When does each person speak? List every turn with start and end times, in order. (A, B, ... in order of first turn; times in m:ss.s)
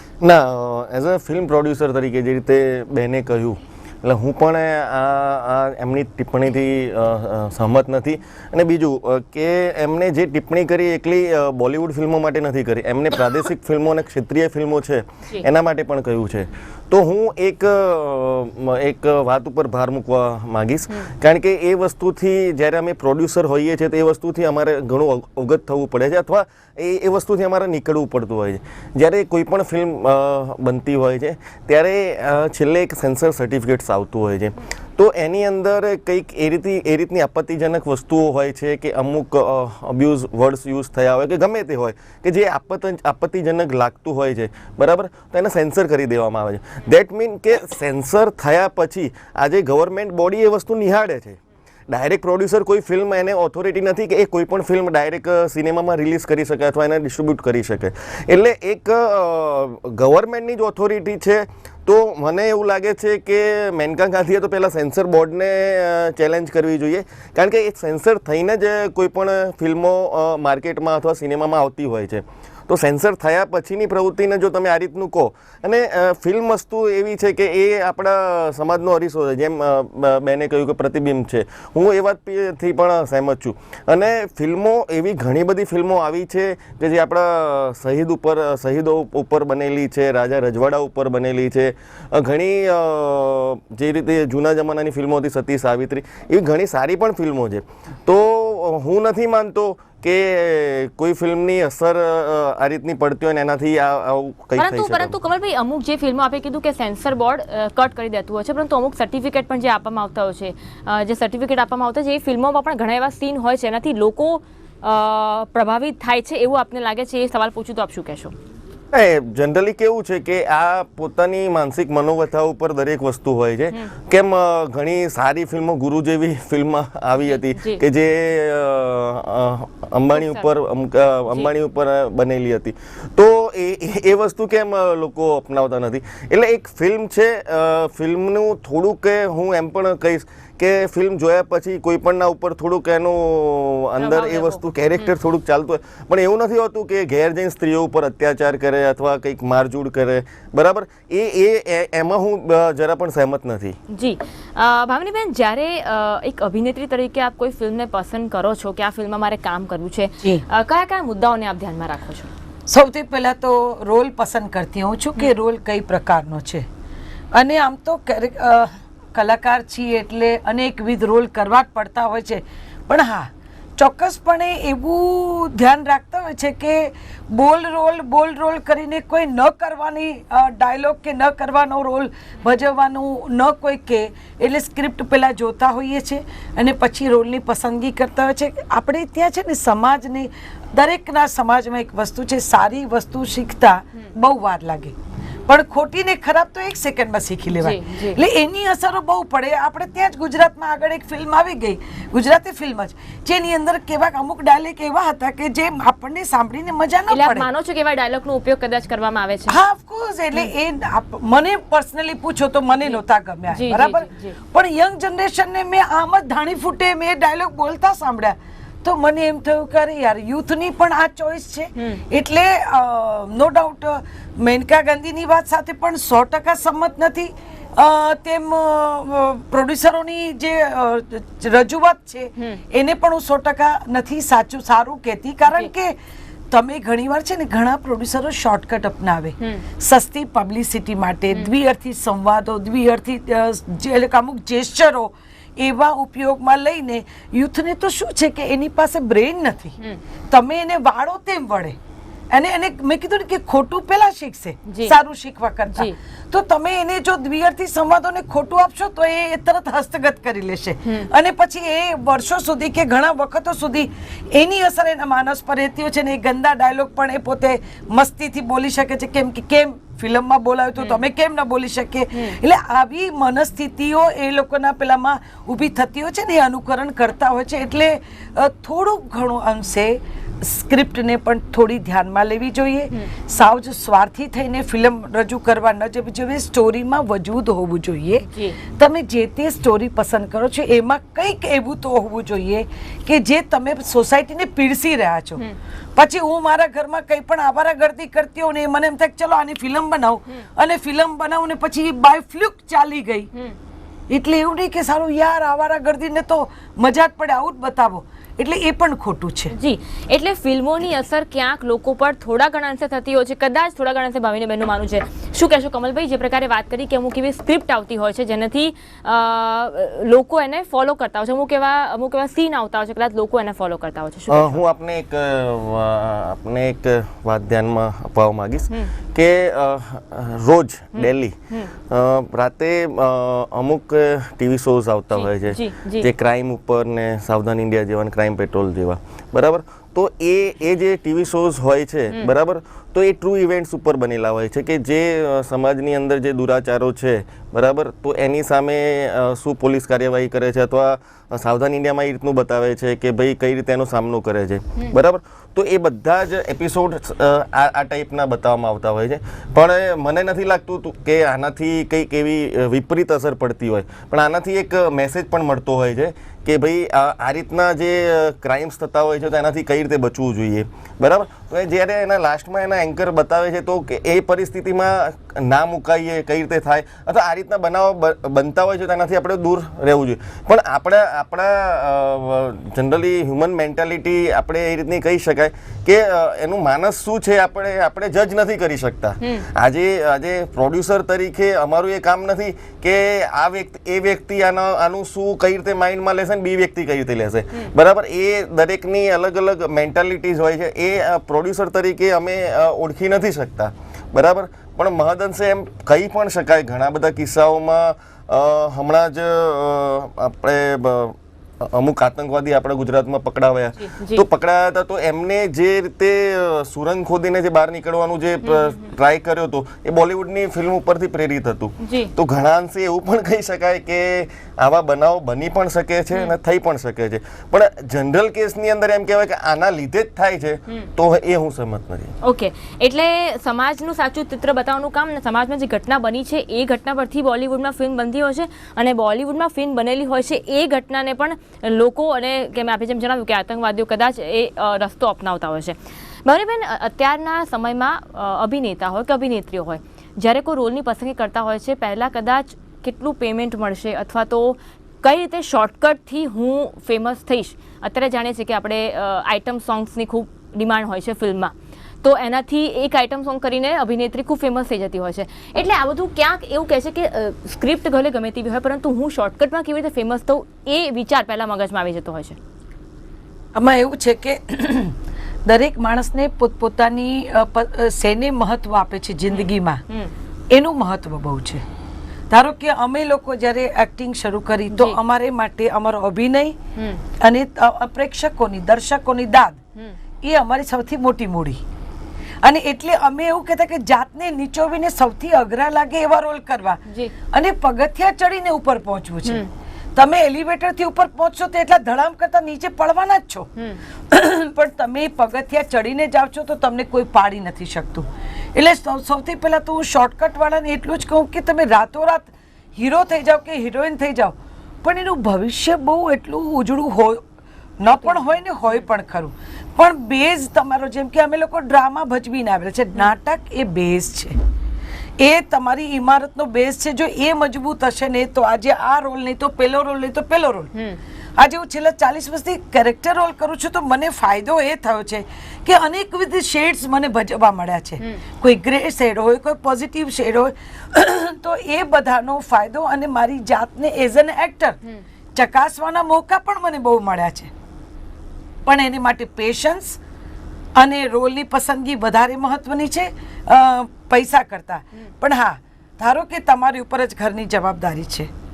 0:00.2-1:45.2 A
1:44.6-1:58.3 B
1:58.9-2:33.8 A
2:07.4-2:07.8 B
2:10.2-2:10.5 B
2:24.0-2:25.1 B
2:33.9-2:42.3 B
2:42.7-2:46.7 C
2:47.3-3:15.0 C
3:15.5-3:27.5 C
3:17.6-3:18.2 B
3:27.1-3:29.6 B
3:29.5-3:56.0 C
3:33.5-3:34.4 B
3:56.5-4:09.8 C
4:10.3-4:11.8 C
4:12.3-4:55.4 C
4:14.7-4:15.0 B
4:48.3-4:48.6 B
4:56.0-5:03.3 C
5:04.1-5:09.6 C
5:09.5-5:24.6 B
5:24.3-5:31.4 A
5:31.0-5:31.7 B
5:31.9-7:12.1 A
5:35.1-5:36.1 B
6:53.8-6:54.2 B
6:58.4-6:58.8 B
7:01.8-7:02.1 B
7:12.2-7:52.4 B
7:53.6-7:59.8 C
7:59.3-8:00.1 B
8:00.5-8:01.6 C
8:02.3-8:06.6 C
8:06.8-8:07.0 B
8:07.2-8:09.6 C
8:10.2-8:11.6 C
8:12.4-8:19.4 C
8:16.9-8:17.1 B
8:19.2-8:19.5 B
8:20.0-8:23.5 C
8:24.1-8:37.2 C
8:37.8-8:44.4 C
8:45.2-8:50.7 C
8:51.4-9:04.8 C
9:05.4-9:07.5 C
9:08.7-9:10.0 C
9:10.8-9:18.3 C